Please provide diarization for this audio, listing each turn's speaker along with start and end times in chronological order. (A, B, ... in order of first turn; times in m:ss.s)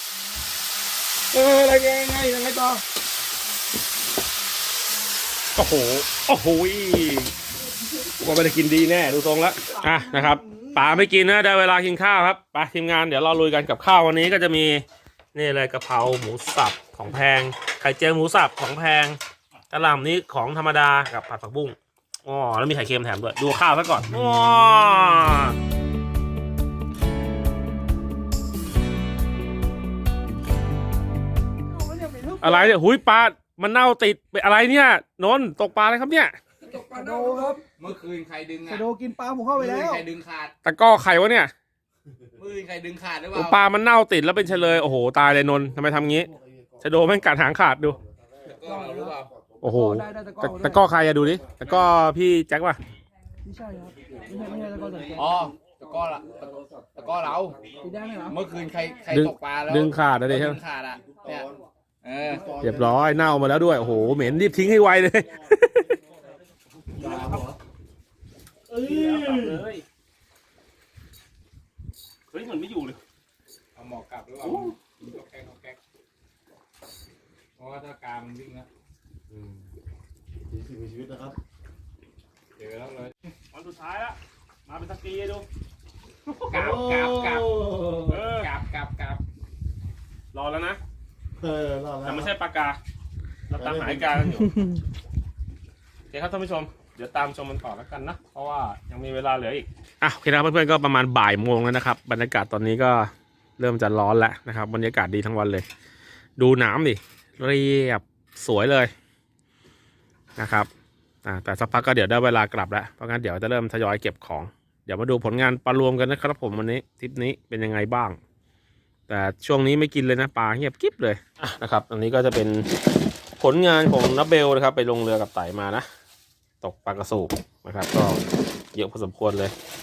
0:01.3-0:02.8 A
0:05.6-0:07.3 B
0:08.2-0:19.2 B
0:09.9-0:10.8 C
0:19.7-0:25.6 B
0:31.7-0:32.7 C
0:32.4-0:36.4 B
0:36.6-0:38.9 D
0:36.9-0:37.6 C
0:38.7-0:40.0 C
0:39.6-0:40.5 D
0:40.6-0:41.5 B
0:42.4-0:43.6 D
0:43.3-0:46.3 B
0:46.1-0:46.9 A
0:46.8-0:48.0 B
0:47.9-0:49.8 A
0:48.4-0:49.3 D
0:48.6-0:50.8 C
0:49.6-0:52.8 B
0:51.4-0:51.7 A
0:53.4-0:55.4 C
0:54.1-0:54.5 D
0:55.1-0:57.7 D
0:56.0-0:57.8 A
0:57.8-0:58.5 C
0:58.2-1:01.5 D
0:59.1-1:00.6 B
1:00.9-1:01.6 A
1:02.0-1:02.6 D
1:02.2-1:04.4 A
1:02.6-1:05.9 B
1:06.9-1:07.6 A
1:07.0-1:07.5 D
1:08.7-1:09.6 A
1:08.8-1:09.8 B
1:12.3-1:13.0 B
1:13.7-1:15.8 D
1:14.4-1:14.7 B
1:17.6-1:18.7 D
1:19.3-1:19.7 A
1:20.5-1:21.4 A
1:22.6-1:23.3 D
1:23.5-1:25.4 B
1:26.4-1:27.5 D
1:26.5-1:28.2 A
1:28.1-1:28.5 B
1:28.3-1:29.2 D
1:30.3-1:30.8 B
1:31.4-1:32.3 A
1:32.0-1:32.8 B
1:33.5-1:34.6 B
1:33.5-1:34.3 A
1:36.1-1:45.6 B
1:46.4-1:48.9 B
1:50.4-1:50.7 B
1:51.2-1:58.2 B
1:59.1-2:02.7 B
2:03.4-2:05.8 B
2:06.6-2:08.2 B
2:08.7-2:09.5 B